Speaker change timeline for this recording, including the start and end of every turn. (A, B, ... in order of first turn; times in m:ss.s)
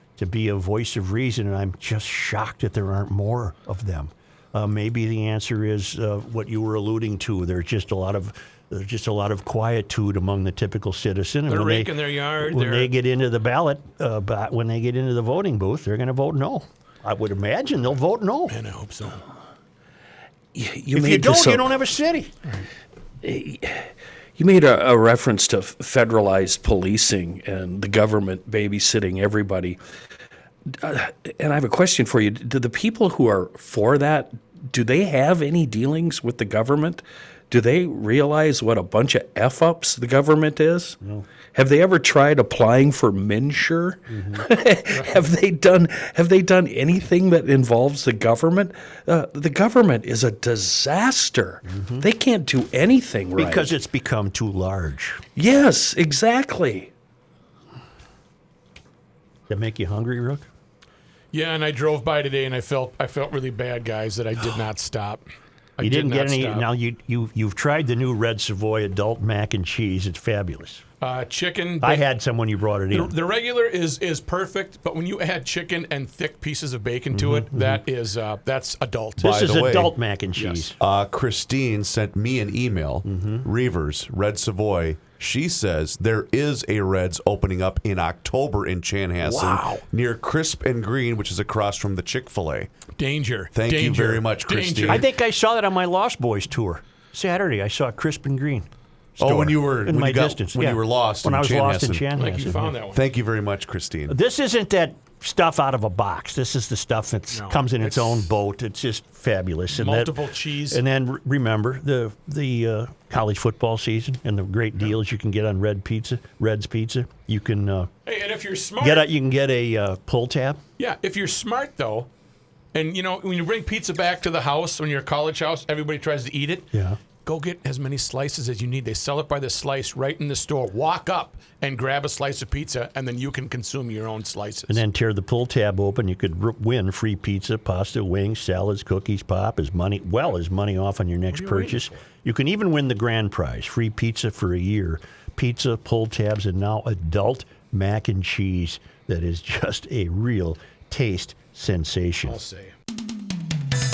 0:00.2-0:18.6 A
0:11.5-0:12.9 B
0:18.5-0:19.2 B
0:20.6-0:21.8 C
0:20.9-0:22.3 A
0:23.2-0:29.8 C
0:30.8-0:41.0 C
0:41.5-0:53.7 C
0:44.1-0:44.5 A
0:44.9-0:45.2 B
0:51.6-0:52.1 A
0:53.4-0:55.2 A
0:55.4-0:56.9 C
0:59.5-1:00.5 A
1:01.3-1:05.2 B
1:05.8-1:06.7 B
1:05.8-1:10.8 A
1:11.0-1:12.0 B
1:11.8-1:13.1 A
1:12.9-1:19.4 B
1:17.1-1:17.8 A
1:19.2-1:19.9 D
1:19.2-1:20.8 A
1:20.4-1:20.7 B
1:20.8-1:32.7 D
1:23.1-1:23.5 A
1:29.2-1:29.8 B
1:33.0-1:35.1 B
1:33.5-1:35.0 D
1:34.9-1:42.7 A
1:39.2-1:44.2 D
1:42.2-1:43.0 B
1:44.1-1:50.2 A
1:47.3-1:48.3 B
1:49.7-1:50.8 B
1:50.7-1:57.9 A
1:58.1-1:59.1 B
1:58.8-2:00.6 A
2:00.8-2:02.1 B
2:02.7-2:06.7 B
2:06.7-2:07.0 A
2:07.2-2:14.8 B
2:14.7-2:32.4 A
2:21.3-2:22.0 B
2:32.2-2:32.7 B